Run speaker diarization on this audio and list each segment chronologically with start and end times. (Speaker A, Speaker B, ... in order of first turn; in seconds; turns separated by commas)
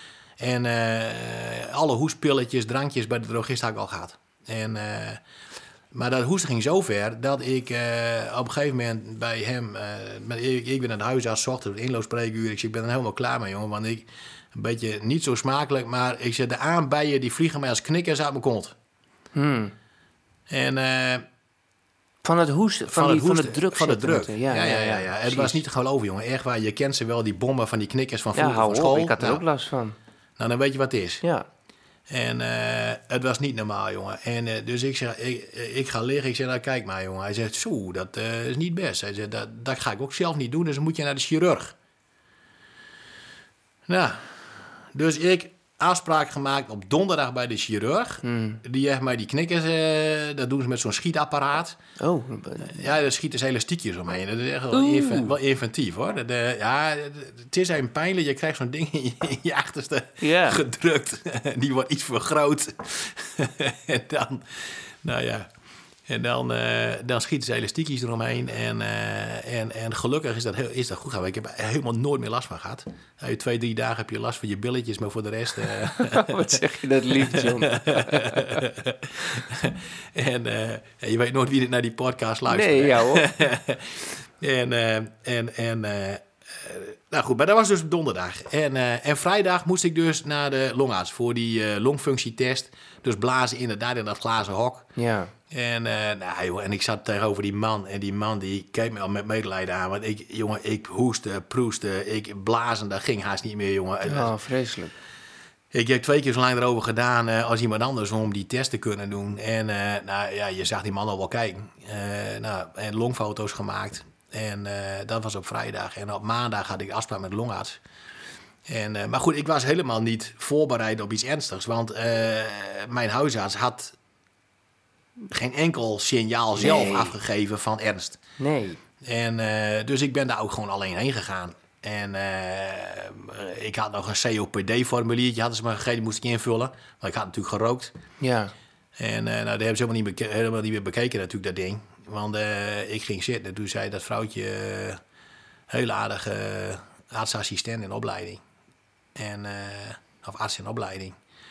Speaker A: 0.4-5.2, Speaker A: 5.9-18.7, Speaker B: 19.3-19.7, Speaker A: 20.5-21.2, Speaker B: 22.2-25.6, Speaker A: 22.9-29.4, Speaker B: 28.3-29.9, Speaker A: 30.4-31.2, Speaker A: 32.1-41.7, Speaker A: 43.9-51.8, Speaker B: 48.2-48.6, Speaker B: 52.0-52.9, Speaker A: 52.6-65.5, Speaker B: 54.7-55.3, Speaker B: 60.2-60.6, Speaker A: 66.1-76.6, Speaker B: 75.6-78.6, Speaker A: 77.1-94.9, Speaker B: 82.5-83.3, Speaker B: 95.0-95.3, Speaker A: 95.5-104.3, Speaker B: 104.0-104.9, Speaker A: 105.7-117.8, Speaker A: 118.7-124.0, Speaker A: 125.3-128.2, Speaker B: 126.6-127.2, Speaker B: 128.4-128.8, Speaker A: 129.0-137.9, Speaker B: 138.2-138.5, Speaker A: 139.0-145.0, Speaker A: 145.7-148.4, Speaker A: 149.2-151.2